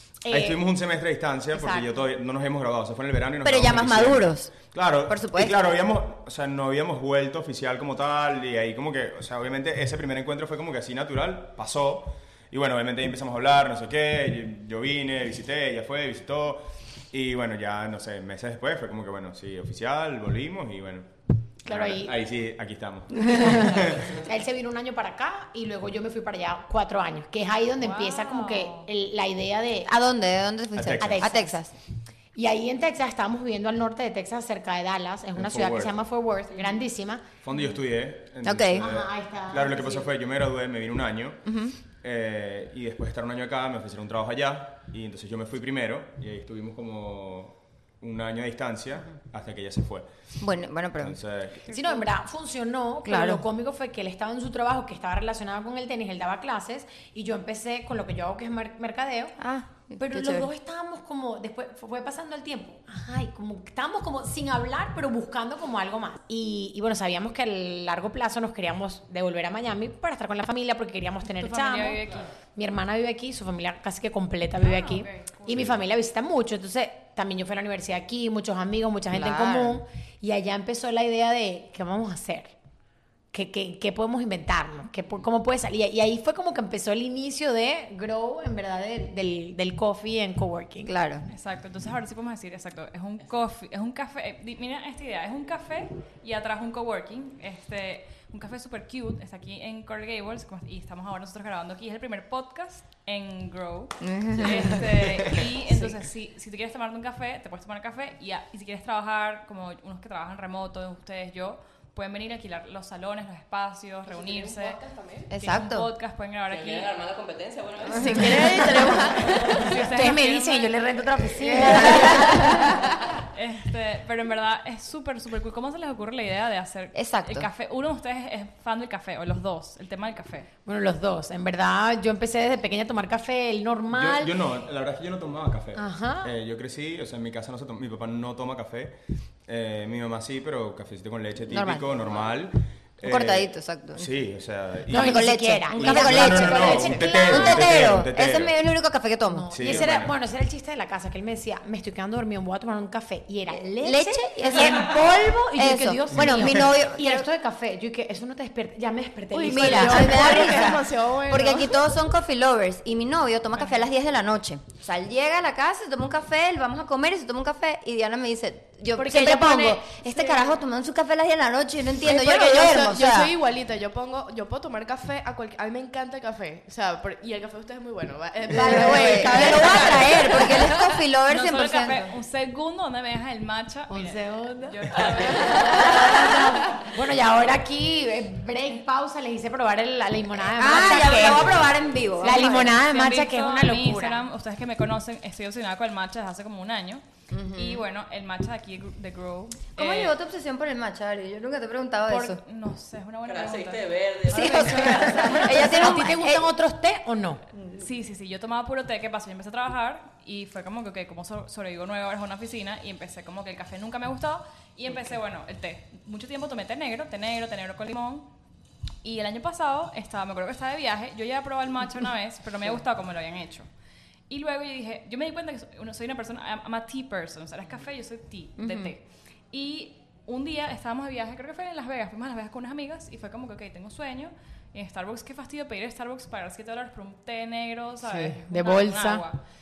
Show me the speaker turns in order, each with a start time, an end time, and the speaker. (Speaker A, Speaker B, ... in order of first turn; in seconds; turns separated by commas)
Speaker A: 0.2-0.6, Speaker B: 0.3-21.1, Speaker A: 1.5-2.0, Speaker C: 3.4-4.5, Speaker C: 5.1-5.6, Speaker A: 21.6-22.1, Speaker B: 21.7-24.1, Speaker A: 23.2-29.9, Speaker D: 27.8-28.9, Speaker C: 29.9-31.7, Speaker B: 30.8-31.3, Speaker A: 31.0-31.6, Speaker A: 32.4-37.2, Speaker B: 35.4-36.0, Speaker B: 37.4-41.5, Speaker C: 38.4-38.9, Speaker A: 38.8-40.1, Speaker C: 41.5-41.7, Speaker B: 42.0-50.1, Speaker C: 50.4-51.2, Speaker B: 51.0-51.7, Speaker A: 51.7-59.4, Speaker C: 53.1-53.5, Speaker C: 59.4-60.5, Speaker A: 60.0-72.0, Speaker D: 71.4-72.3, Speaker A: 72.5-82.5, Speaker D: 74.6-75.6, Speaker B: 75.5-75.8, Speaker C: 79.1-79.8, Speaker A: 83.3-90.9, Speaker C: 90.9-91.3, Speaker D: 91.3-114.8, Speaker C: 104.0-106.0, Speaker E: 114.1-115.3, Speaker C: 115.3-115.9, Speaker D: 115.4-116.9, Speaker E: 116.5-119.7, Speaker F: 118.0-119.8, Speaker A: 118.1-118.6, Speaker D: 119.6-120.8, Speaker A: 119.9-123.0, Speaker C: 121.4-122.8, Speaker D: 122.1-122.7, Speaker D: 123.3-130.5, Speaker C: 126.9-127.5, Speaker A: 130.7-134.3, Speaker B: 133.9-138.9, Speaker A: 135.8-136.3, Speaker B: 139.5-148.6, Speaker C: 141.5-141.8, Speaker C: 143.0-144.1, Speaker A: 144.9-147.9, Speaker C: 144.9-149.7, Speaker A: 149.3-160.8, Speaker B: 149.5-150.2, Speaker C: 153.8-157.3, Speaker B: 156.1-156.7, Speaker F: 159.3-161.8, Speaker C: 159.5-173.3, Speaker F: 169.0-170.6, Speaker A: 169.1-169.4, Speaker F: 172.0-180.7, Speaker C: 178.5-182.0, Speaker A: 178.6-180.6, Speaker D: 181.3-186.4, Speaker A: 183.9-194.2, Speaker C: 185.8-186.6, Speaker C: 190.6-192.8, Speaker D: 192.5-197.0, Speaker C: 197.3-197.8, Speaker D: 197.5-200.2, Speaker C: 199.8-202.4, Speaker D: 202.1-206.0, Speaker E: 203.3-205.0, Speaker C: 204.3-206.5, Speaker A: 204.9-207.4, Speaker D: 207.7-218.3, Speaker D: 219.0-223.7, Speaker D: 224.3-239.4, Speaker A: 238.1-239.2